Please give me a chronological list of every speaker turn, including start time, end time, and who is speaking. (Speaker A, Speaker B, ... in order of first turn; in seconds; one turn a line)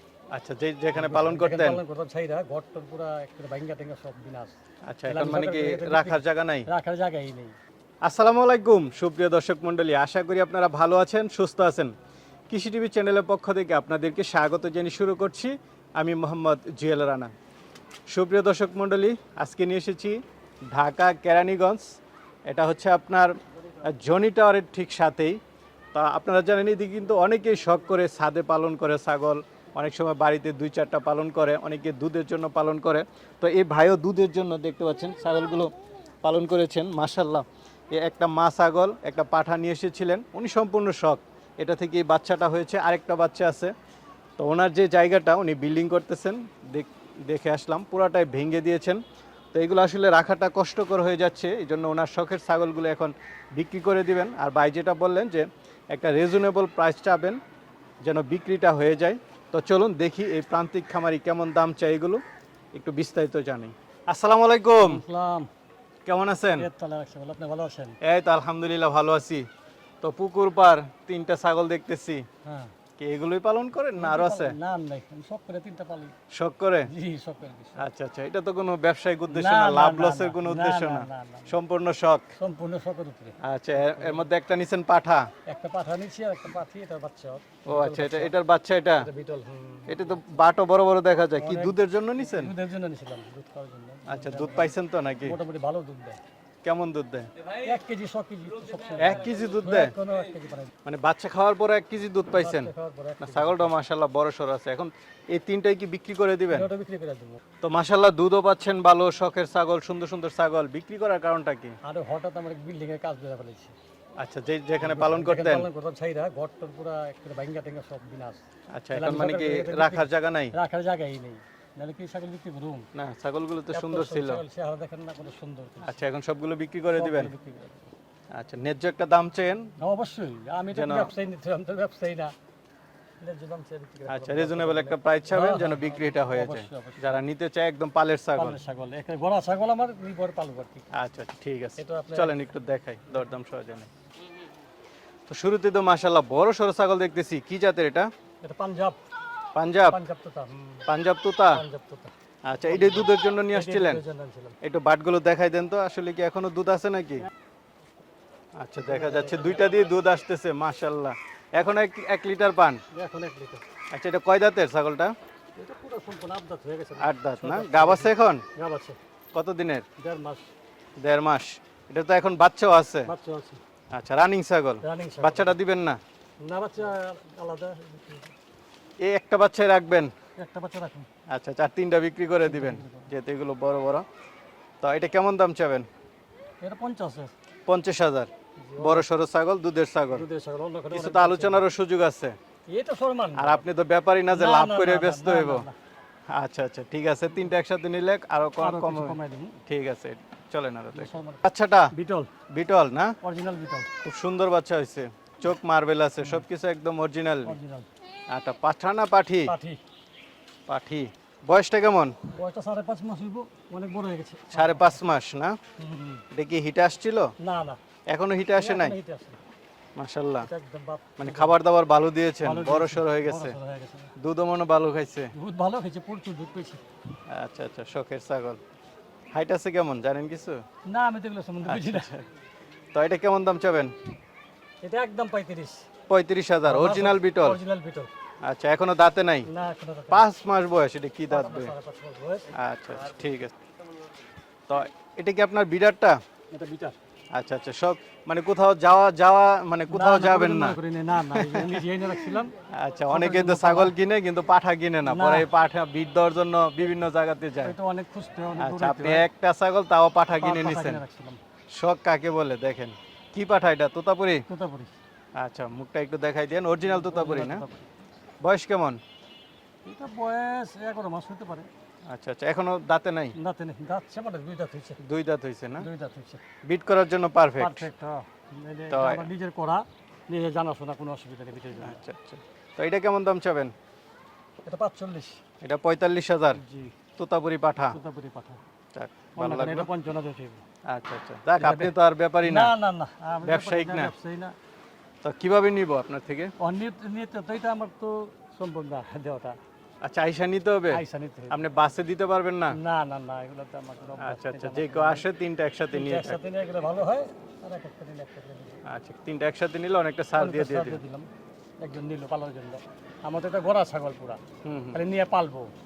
Speaker A: 0.3-1.8
Speaker B: 0.9-4.6
Speaker A: 4.9-6.7
Speaker B: 5.1-7.6
Speaker A: 8.0-11.9
Speaker A: 12.5-17.3
Speaker A: 18.1-21.9
Speaker A: 22.5-23.3
Speaker A: 23.9-25.4
Speaker A: 25.9-43.7
Speaker A: 44.4-49.0
Speaker A: 49.5-57.4
Speaker A: 58.0-62.2
Speaker A: 62.7-65.0
Speaker B: 64.8-65.5
Speaker A: 66.1-66.7
Speaker B: 66.6-68.0
Speaker A: 68.0-69.5
Speaker A: 70.0-72.2
Speaker B: 72.5-72.7
Speaker A: 73.0-74.5
Speaker B: 74.0-76.1
Speaker A: 76.3-76.9
Speaker B: 76.9-77.8
Speaker A: 77.8-82.3
Speaker B: 79.3-81.6
Speaker B: 82.4-84.3
Speaker A: 83.4-85.3
Speaker B: 85.5-88.3
Speaker A: 87.7-89.1
Speaker B: 89.0-90.2
Speaker A: 89.9-92.5
Speaker B: 91.4-96.2
Speaker A: 94.1-95.4
Speaker A: 96.6-97.3
Speaker B: 97.6-100.7
Speaker A: 99.0-100.0
Speaker A: 100.8-106.7
Speaker B: 102.3-103.7
Speaker B: 106.5-107.4
Speaker A: 107.6-111.8
Speaker B: 111.8-113.8
Speaker A: 114.2-115.7
Speaker B: 114.8-122.9
Speaker A: 118.7-120.5
Speaker A: 123.0-124.4
Speaker B: 123.7-126.0
Speaker A: 125.8-127.3
Speaker B: 126.9-127.9
Speaker A: 128.3-129.7
Speaker B: 129.8-132.3
Speaker A: 130.7-131.1
Speaker B: 133.2-137.2
Speaker A: 134.1-138.6
Speaker B: 138.3-140.9
Speaker A: 140.9-143.9
Speaker B: 141.8-142.4
Speaker A: 145.3-148.1
Speaker B: 148.4-149.0
Speaker A: 149.6-150.0
Speaker B: 149.9-150.9
Speaker A: 150.9-151.6
Speaker B: 151.5-152.1
Speaker A: 152.5-154.0
Speaker B: 152.7-154.6
Speaker A: 154.6-157.3
Speaker A: 158.6-162.8
Speaker B: 158.8-159.9
Speaker B: 162.9-163.7
Speaker A: 163.9-165.1
Speaker B: 165.6-169.0
Speaker A: 167.0-168.4
Speaker A: 169.3-169.9
Speaker B: 170.0-170.5
Speaker A: 171.0-173.1
Speaker B: 173.1-173.6
Speaker A: 173.9-176.0
Speaker B: 174.8-175.6
Speaker B: 176.4-178.3
Speaker A: 179.0-180.1
Speaker B: 180.4-181.1
Speaker A: 181.3-184.1
Speaker B: 182.4-183.1
Speaker A: 184.8-185.9
Speaker B: 186.6-187.3
Speaker A: 187.7-190.2
Speaker B: 188.6-189.1
Speaker B: 190.1-191.7
Speaker A: 190.9-192.3
Speaker B: 192.7-193.7
Speaker A: 193.4-195.7
Speaker B: 194.3-195.8
Speaker A: 196.3-199.2
Speaker B: 198.6-199.6
Speaker A: 199.7-201.9
Speaker B: 200.9-202.3
Speaker A: 202.5-203.2
Speaker B: 203.2-203.9
Speaker A: 204.0-207.6
Speaker B: 207.5-207.9
Speaker A: 208.3-209.5
Speaker B: 209.5-209.8
Speaker A: 210.7-212.2
Speaker B: 212.3-215.0
Speaker A: 214.5-215.6
Speaker B: 215.8-216.2
Speaker A: 216.3-217.3
Speaker B: 217.4-217.8
Speaker A: 218.1-218.9
Speaker B: 218.6-219.4
Speaker A: 220.0-220.5
Speaker B: 220.4-221.5
Speaker A: 221.2-223.6
Speaker B: 222.4-224.1
Speaker A: 224.2-225.3
Speaker B: 225.3-226.8
Speaker A: 227.3-228.6
Speaker A: 229.3-230.6
Speaker B: 230.9-232.1
Speaker A: 231.7-232.3
Speaker A: 232.9-233.9
Speaker B: 234.8-235.9
Speaker A: 236.1-237.6
Speaker B: 236.7-238.1
Speaker A: 238.4-239.5
Speaker B: 239.5-240.3
Speaker A: 240.1-241.7
Speaker B: 241.3-242.5
Speaker A: 242.5-243.6
Speaker A: 244.7-246.2
Speaker B: 246.5-247.0
Speaker A: 247.3-251.8
Speaker B: 249.9-252.5
Speaker A: 252.7-257.8
Speaker B: 253.1-254.0
Speaker B: 255.1-255.5
Speaker B: 257.6-259.3
Speaker A: 258.6-261.0
Speaker B: 260.3-261.4
Speaker A: 261.7-264.4
Speaker B: 264.5-264.9
Speaker A: 265.4-267.6
Speaker B: 266.8-267.9
Speaker A: 268.4-269.0
Speaker B: 269.9-271.7
Speaker A: 272.1-273.4
Speaker B: 273.4-275.0
Speaker A: 275.0-275.9
Speaker B: 275.8-276.4
Speaker A: 276.6-277.9
Speaker B: 277.6-282.0
Speaker A: 278.9-279.3
Speaker A: 281.8-283.7
Speaker B: 284.6-285.4
Speaker A: 285.6-286.6
Speaker B: 286.6-286.9
Speaker A: 287.2-288.0
Speaker B: 287.9-288.6
Speaker A: 288.9-289.9
Speaker B: 289.4-290.6
Speaker A: 290.9-292.7
Speaker B: 291.6-294.6
Speaker A: 293.4-294.1
Speaker A: 295.2-296.5
Speaker B: 296.6-299.6
Speaker A: 300.0-302.8
Speaker B: 300.9-301.6
Speaker B: 302.7-305.2
Speaker A: 304.2-306.4
Speaker B: 305.9-308.8
Speaker A: 308.9-311.0
Speaker B: 310.4-311.3
Speaker B: 311.8-314.4
Speaker A: 314.6-315.0
Speaker B: 314.9-315.7